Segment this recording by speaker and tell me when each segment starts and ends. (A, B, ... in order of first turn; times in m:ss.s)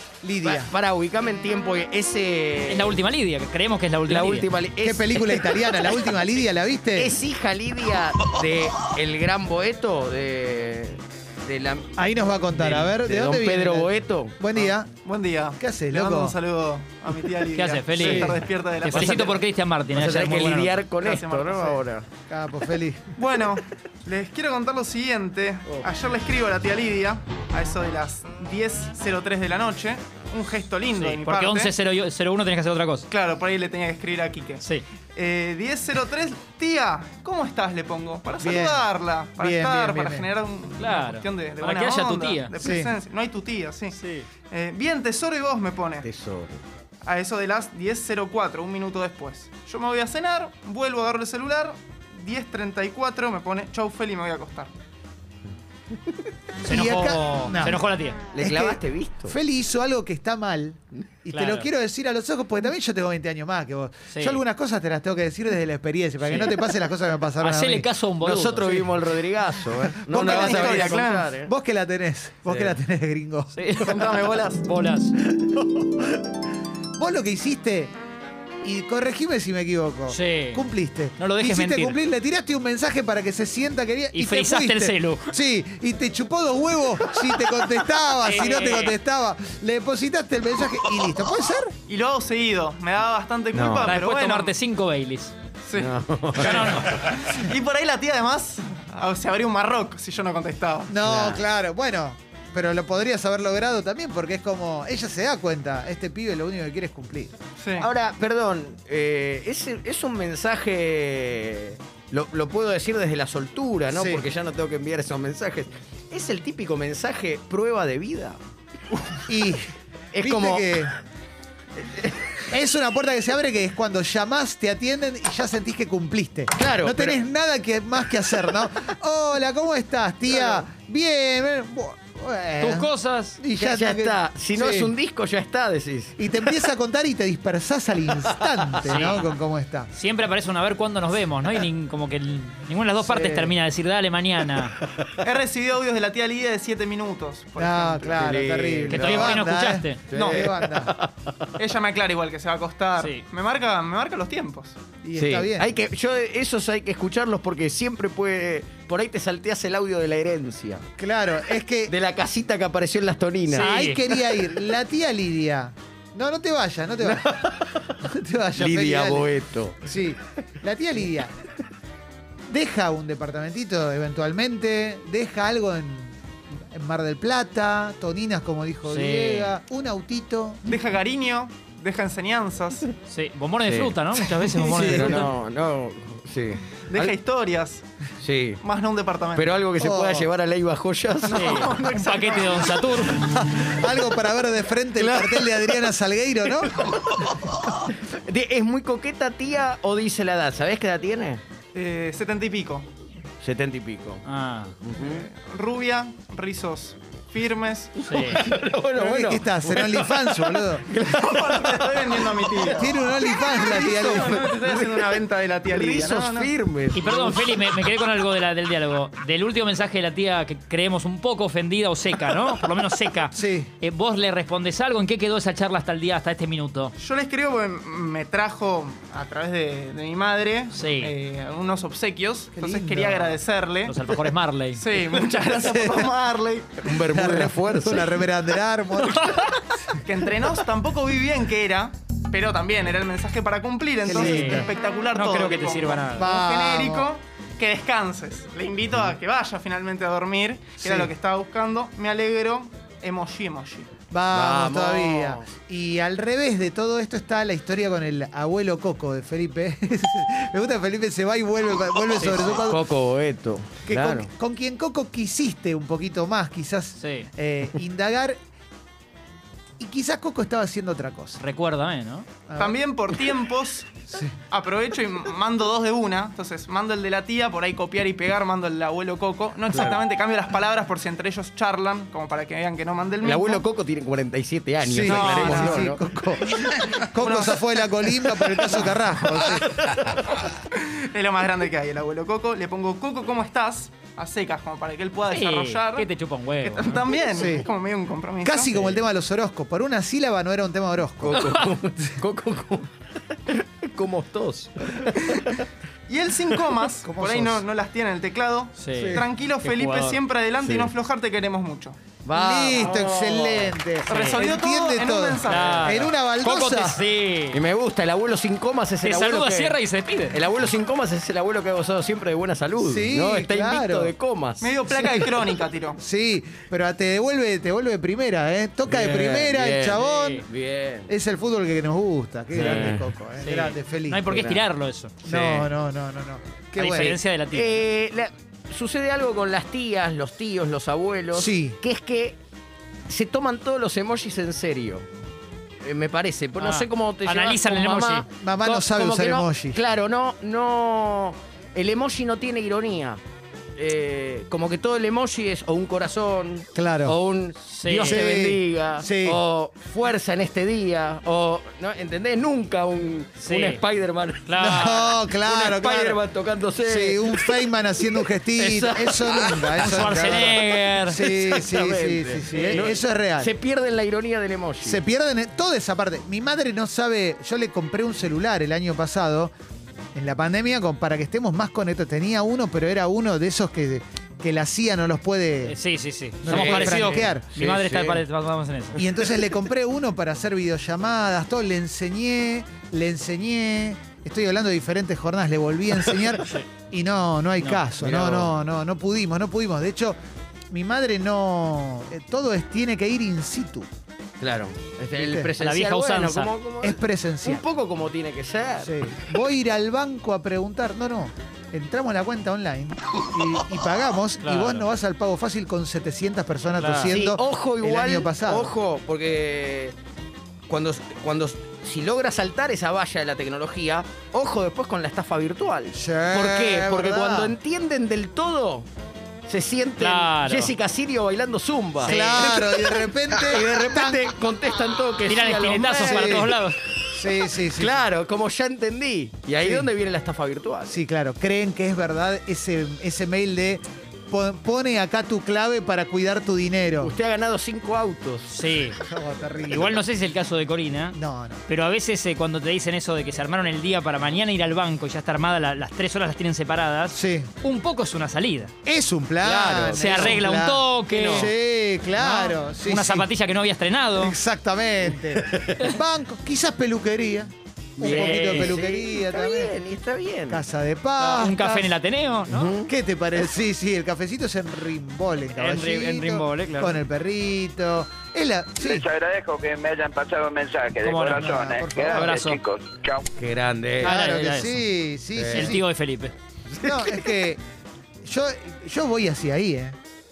0:00.2-0:00.7 A
0:00.4-0:03.0 B
0:02.7-0:04.5 C
0:04.1-0:06.2 B
0:04.8-0:07.2 A
0:06.9-0:11.9 B
0:12.0-0:14.9 A
0:12.5-0:12.9 C
0:13.0-0:14.4 B
0:14.5-0:19.4 D
0:15.6-0:16.4 A
0:17.5-0:20.8 C
0:18.0-0:18.4 A
0:18.9-0:19.3 B
0:19.9-0:22.0 B
0:21.0-0:21.8 D
0:22.3-0:23.1 A
0:23.2-0:31.7 D
0:30.9-0:33.1 C
0:33.1-0:34.6 D
0:35.1-0:44.0 D
0:38.4-0:38.8 A
0:39.4-0:40.3 A
0:40.8-0:42.5 C
0:42.6-0:42.9 A
0:44.0-0:44.3 C
0:44.5-0:46.0 D
0:46.0-0:46.6 B
0:47.0-0:54.7 D
0:56.6-0:58.2 C
0:56.6-0:57.8 A
0:58.3-0:59.3 B
0:58.3-1:07.9 A
1:01.3-1:01.7 C
1:04.1-1:04.4 C
1:06.2-1:06.6 C
1:07.4-1:08.9 C
1:08.2-1:11.5 B
1:09.7-1:13.7 A
1:10.1-1:11.3 D
1:12.5-1:12.7 C
1:13.5-1:15.1 C
1:13.8-1:14.7 D
1:15.2-1:16.2 A
1:17.0-1:17.9 A
1:18.6-1:31.7 A
1:20.1-1:20.6 C
1:21.2-1:22.0 C
1:24.1-1:25.3 C
1:27.4-1:27.7 B
1:28.2-1:29.0 C
1:31.9-1:34.5 D
1:33.5-1:34.0 B
1:33.8-1:35.3 C
1:35.6-1:41.0 D
1:35.8-1:37.0 B
1:40.9-1:47.4 A
1:41.0-1:41.4 B
1:47.6-1:47.9 D
1:47.8-1:58.4 B
1:53.9-1:54.2 A
1:59.3-2:00.9 A
2:00.1-2:00.9 B
2:01.8-2:02.3 B
2:02.5-2:14.9 A
2:06.5-2:07.2 B
2:10.3-2:10.6 B
2:12.6-2:13.4 C
2:13.6-2:16.2 B
2:16.2-2:19.9 A
2:18.2-2:19.0 B
2:18.8-2:19.3 C
2:19.9-2:24.8 C
2:23.0-2:23.5 B
2:25.2-2:28.3 D
2:27.6-2:30.9 A
2:28.1-2:29.4 B
2:28.9-2:30.0 C
2:30.1-2:31.5 B
2:30.1-2:30.5 D
2:31.6-2:34.8 D
2:33.0-2:33.2 C
2:35.0-2:35.7 A
2:35.1-2:40.8 B
2:41.0-2:41.9 A
2:41.9-2:43.7 B
2:43.5-2:44.0 C
2:43.5-2:47.4 A
2:47.0-2:48.0 B
2:48.0-2:49.3 A
2:48.6-2:49.8 B
2:49.8-2:51.3 A
2:52.5-2:56.2 A
2:56.7-3:00.6 A
2:58.8-2:59.5 C
3:00.6-3:02.9 D
3:03.1-3:05.3 C
3:03.6-3:04.0 B
3:04.6-3:05.2 A
3:04.7-3:07.1 B
3:06.9-3:07.8 D
3:08.2-3:08.6 B
3:08.6-3:09.5 D
3:09.3-3:11.7 B
3:09.8-3:10.3 A
3:11.2-3:12.9 D
3:11.3-3:13.4 C
3:13.4-3:17.0 A
3:15.0-3:15.9 B
3:16.5-3:21.4 B
3:21.7-3:22.9 D
3:23.4-3:24.2 B
3:24.2-3:24.7 C
3:24.8-3:25.2 B
3:25.0-3:28.2 D
3:28.0-3:37.9 B
3:28.1-3:28.4 C
3:28.9-3:30.9 A
3:31.0-3:33.0 D
3:32.6-3:34.4 A
3:33.5-3:36.5 D
3:36.9-3:46.9 C
3:43.3-3:43.7 A
3:47.0-3:54.1 D
3:50.7-3:51.1 C
3:52.5-3:53.4 A
3:53.8-3:54.8 C
3:54.7-3:56.9 D
3:55.5-3:56.1 A
3:56.8-3:58.2 B
3:56.9-3:59.6 A
3:59.2-3:59.5 C
4:00.0-4:13.9 D
4:04.0-4:04.7 A
4:04.1-4:06.2 C
4:06.2-4:07.1 A
4:10.8-4:11.1 A
4:14.1-4:22.8 A
4:14.3-4:15.5 B
4:22.1-4:22.6 C
4:22.6-4:24.3 B
4:23.8-4:28.4 A
4:27.0-4:27.3 C
4:29.8-4:31.4 A
4:31.4-4:32.3 C
4:32.5-4:32.8 A
4:32.6-4:43.6 D
4:34.1-4:34.3 A
4:39.7-4:40.0 B
4:43.2-4:46.0 B
4:44.8-4:49.8 A
4:45.0-4:45.9 D
4:46.5-4:48.1 D
4:48.7-4:49.0 D
4:49.4-4:50.5 B
4:50.7-4:58.8 D
4:55.3-4:57.1 C
4:57.3-4:57.7 A
4:58.4-5:01.6 A
4:58.7-4:59.0 C
5:01.2-5:05.7 B
5:06.1-5:12.0 D
5:07.0-5:07.6 A
5:08.8-5:10.2 C
5:08.9-5:09.2 A
5:10.6-5:10.9 B
5:12.2-5:13.8 B
5:12.3-5:17.0 A
5:14.1-5:16.0 D
5:14.1-5:14.4 C
5:15.4-5:17.6 C
5:17.5-5:19.8 B
5:19.0-5:20.4 C
5:20.3-5:24.7 B
5:22.8-5:24.1 A
5:24.6-5:26.0 D
5:26.0-5:30.4 A
5:28.9-5:31.1 B
5:29.9-5:30.4 C
5:31.1-5:34.3 A
5:32.5-5:33.1 B
5:32.5-5:35.1 C
5:34.3-5:34.6 B
5:35.2-5:35.7 B
5:35.2-5:37.2 A
5:36.8-5:37.8 C
5:37.5-5:42.4 B
5:41.3-5:41.8 A
5:43.1-5:45.0 B
5:45.8-5:53.2 B
5:46.6-5:48.2 C
5:48.4-5:49.8 A
5:53.8-6:10.2 B
5:56.7-5:57.2 A
5:57.7-5:58.2 C
5:58.0-5:59.4 A
6:03.4-6:03.8 C
6:04.4-6:05.0 C
6:04.6-6:06.2 A
6:06.8-6:13.5 A
6:09.8-6:11.2 C
6:11.1-6:15.0 B
6:12.5-6:12.9 C
6:14.8-6:19.5 A
6:20.1-6:25.8 A
6:25.6-6:29.0 C
6:26.4-6:27.5 A
6:26.5-6:28.2 B
6:29.0-6:40.2 A
6:37.6-6:37.8 C
6:38.0-6:38.6 B
6:40.7-6:43.9 A
6:44.4-6:49.1 B
6:45.1-6:45.5 A
6:45.6-6:46.5 C
6:46.8-6:47.6 A
6:48.8-6:58.7 A
6:54.4-6:54.9 C
6:56.7-6:57.1 C
6:57.1-7:00.0 B
7:00.7-7:08.9 B
7:05.9-7:07.6 A
7:09.5-7:16.6 B
7:10.0-7:10.7 C
7:12.0-7:12.7 C
7:12.0-7:14.2 A
7:15.3-7:16.8 C
7:15.9-7:16.5 A
7:17.1-7:18.0 A
7:17.5-7:20.9 B
7:19.6-7:19.9 A
7:20.9-7:27.1 A
7:27.0-7:28.5 B
7:28.5-7:29.0 C
7:29.0-7:30.0 A
7:29.7-7:31.2 C
7:31.1-7:31.6 A
7:31.7-7:38.7 C
7:37.1-7:37.5 A
7:38.8-7:43.3 A
7:39.4-7:40.4 B
7:39.9-7:41.5 C
7:41.1-7:41.5 B
7:42.2-7:44.4 C
7:44.1-7:49.7 A
7:45.3-7:45.8 B
7:48.0-7:50.6 B
7:48.0-7:48.8 C
7:50.5-7:51.9 A
7:51.2-7:52.8 C
7:52.5-7:52.9 B
7:52.9-7:59.1 A
7:55.6-7:57.0 C
7:58.9-8:03.2 E
8:01.0-8:02.6 C
8:01.4-8:02.4 A
8:03.4-8:04.2 B
8:04.0-8:05.8 A
8:04.0-8:04.8 C
8:05.4-8:05.8 B
8:05.5-8:06.3 C
8:06.7-8:07.5 B
8:06.8-8:07.6 A
8:08.2-8:10.0 A